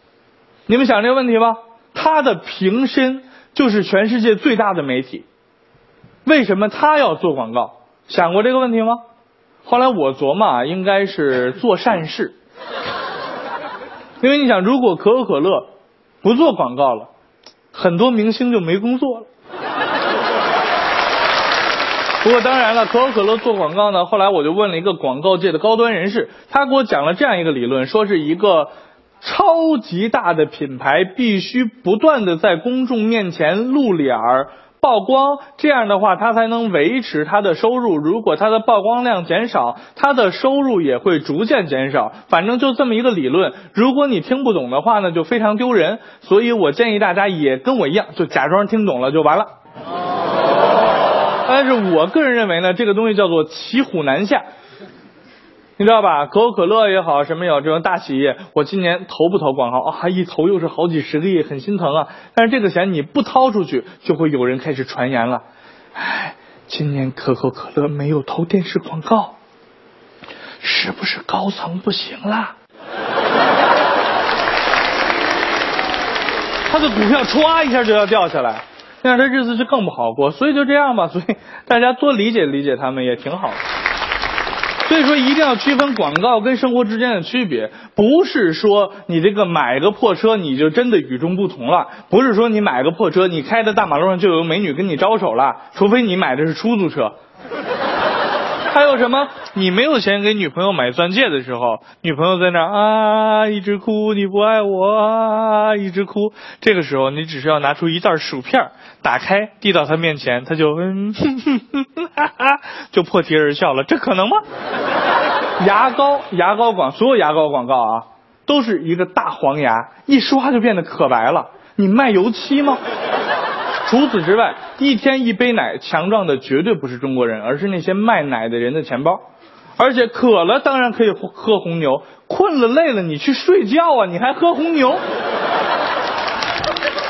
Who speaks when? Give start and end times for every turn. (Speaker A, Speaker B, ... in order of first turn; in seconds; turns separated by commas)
Speaker A: 0.7-5.2, Speaker A: 6.2-9.0, Speaker A: 9.7-12.4, Speaker A: 14.2-15.7, Speaker A: 16.2-17.1, Speaker A: 17.7-19.3, Speaker A: 22.2-28.7, Speaker A: 29.2-49.5, Speaker A: 51.5-54.5, Speaker A: 55.8-65.4, Speaker A: 66.0-69.4, Speaker A: 70.6-72.5, Speaker A: 76.7-83.6, Speaker A: 84.9-97.2, Speaker A: 98.7-114.4, Speaker A: 115.6-122.8, Speaker A: 123.9-129.2, Speaker A: 129.8-135.0